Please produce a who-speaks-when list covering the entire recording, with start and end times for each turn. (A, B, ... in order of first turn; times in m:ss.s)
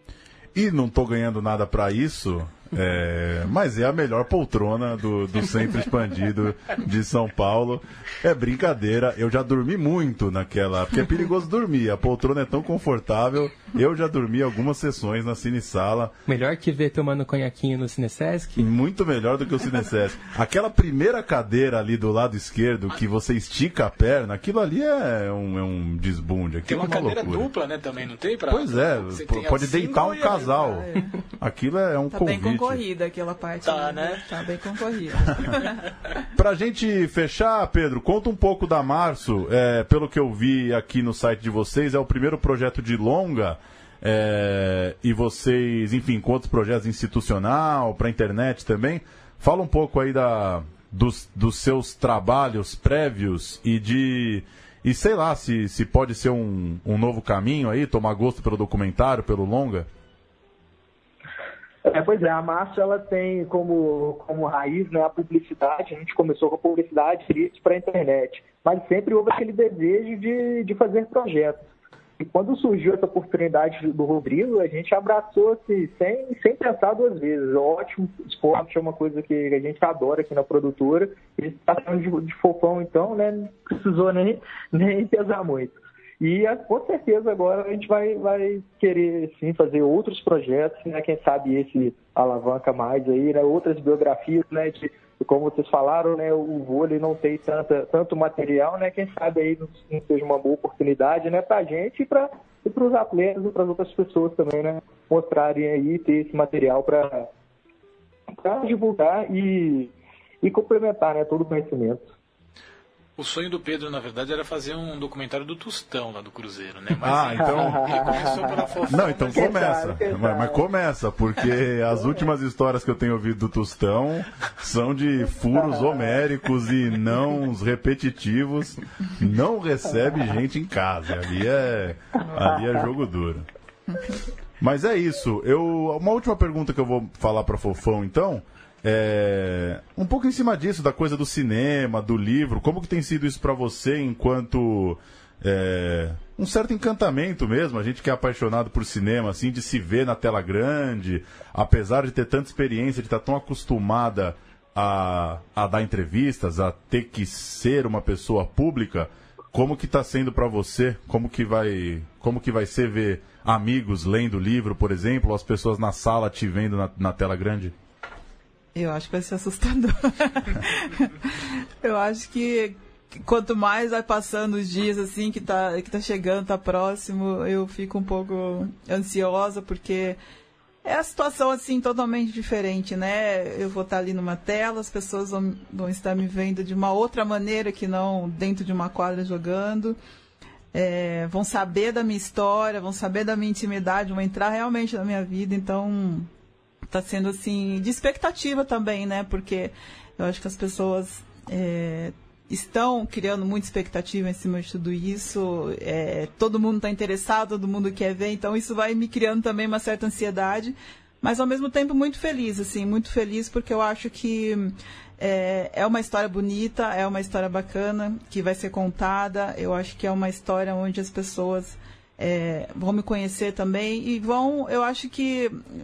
0:00.5-0:16.2 A
0:16.3-0:18.7 B
0:18.6-0:27.5 A
0:26.6-0:30.6 C
0:28.5-0:30.9 A
0:30.6-0:31.1 D
0:31.4-0:32.8 A
0:32.1-0:35.9 D
0:33.6-0:34.2 C
0:36.3-0:59.9 A
1:01.8-1:11.6 E
1:12.2-1:47.3 E
1:48.4-1:52.1 E
1:53.2-1:59.7 C
1:57.0-1:57.8 A
1:57.4-2:00.6 E
1:58.9-2:13.4 A
2:14.6-2:47.7 A
2:48.7-3:00.2 D
3:00.8-3:10.0 D
3:10.7-3:16.3 D
3:16.9-3:45.6 D